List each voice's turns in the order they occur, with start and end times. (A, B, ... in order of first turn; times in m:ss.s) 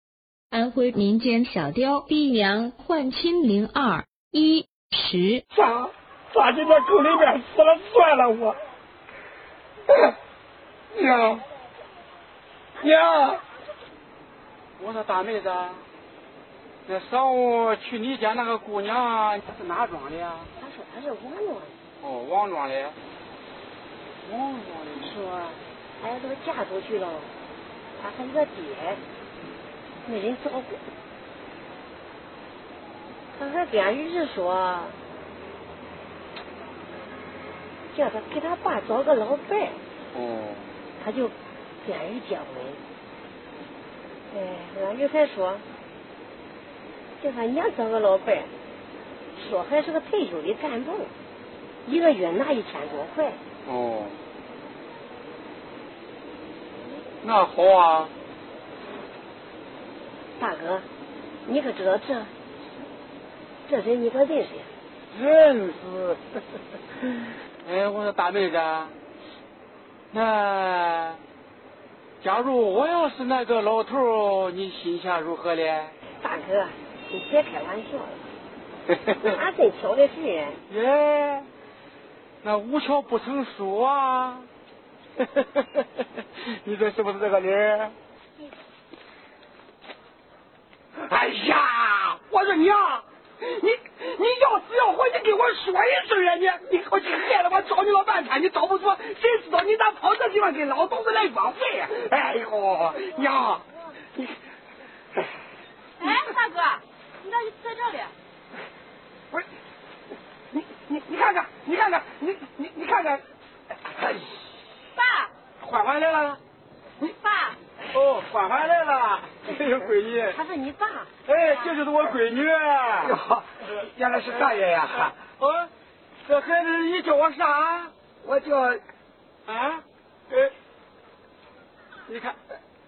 0:00.5-0:05.4 A
0:05.5-0:08.6 B
0:10.9-0:11.4 B
0:12.8-0:13.4 B
0:14.8-0:15.8 C
0:16.8-0:20.5 C
0:20.6-0:21.7 D
0:22.0-0:23.0 C
0:24.2-0:25.2 C
0:25.0-0:27.3 D
0:28.0-0:29.0 D
0:30.0-0:30.8 D
0:33.3-0:35.0 D
0:37.9-0:39.8 D
0:40.1-0:40.7 C
0:41.0-0:42.8 D
0:44.3-0:45.6 D
0:47.2-0:48.5 D
0:49.3-0:51.1 D
0:51.8-0:53.4 D
0:53.6-0:54.2 C
0:57.2-0:58.1 C
1:00.4-1:00.8 D
1:01.4-1:02.3 D
1:03.7-1:04.7 D
1:05.1-1:06.2 C
1:07.5-1:09.0 C
1:10.1-1:11.2 C
1:12.2-1:15.9 C
1:16.2-1:18.2 D
1:19.2-1:20.6 D
1:20.7-1:21.5 C
1:22.4-1:24.5 C
1:25.2-1:28.0 C
1:31.1-1:43.6 B
1:46.0-1:48.1 E
1:50.9-1:53.2 B
1:54.0-1:54.2 B
1:54.9-1:55.3 E
1:55.6-1:56.4 C
1:57.0-1:57.6 E
1:57.9-2:00.4 C
2:00.2-2:01.1 D
2:01.2-2:03.2 C
2:03.0-2:05.1 B
2:04.3-2:05.7 C
2:06.2-2:07.9 C
2:08.2-2:08.8 B
2:09.4-2:10.5 C
2:12.1-2:12.4 C